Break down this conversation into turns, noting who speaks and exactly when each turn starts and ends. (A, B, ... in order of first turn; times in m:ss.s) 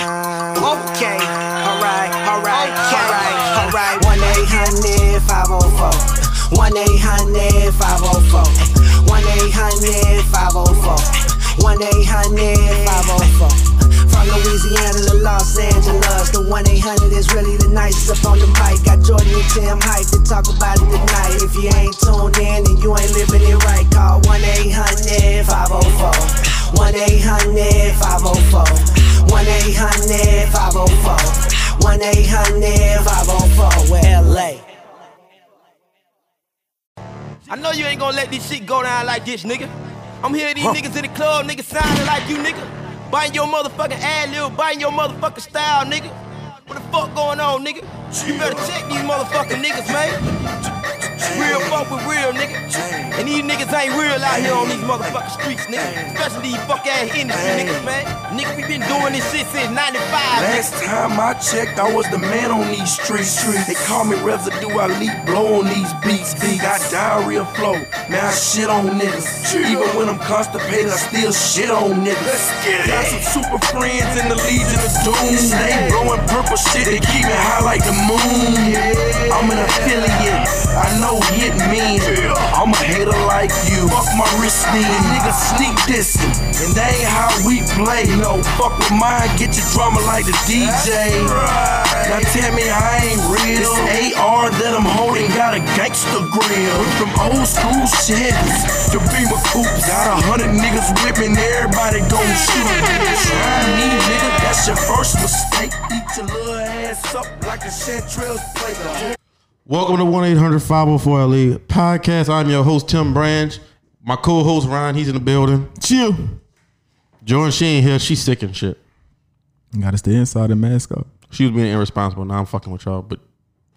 0:00.6-0:34.6 A
0:02.5-0:03.4 B
0:37.5-0:39.7 B
0:40.2-0:46.2 B
0:46.7-0:50.2 B
0:48.1-0:48.8 C
0:51.0-0:51.9 C
0:51.2-1:00.6 B
0:52.7-0:53.2 C
0:54.3-0:55.2 C
0:55.8-0:56.3 C
0:57.3-0:58.0 C
0:58.8-0:59.2 C
1:00.3-1:49.2 C
1:49.7-1:55.7 D
1:55.8-1:56.4 E
1:57.2-1:58.8 D
1:59.7-2:01.1 E
2:01.3-2:03.2 D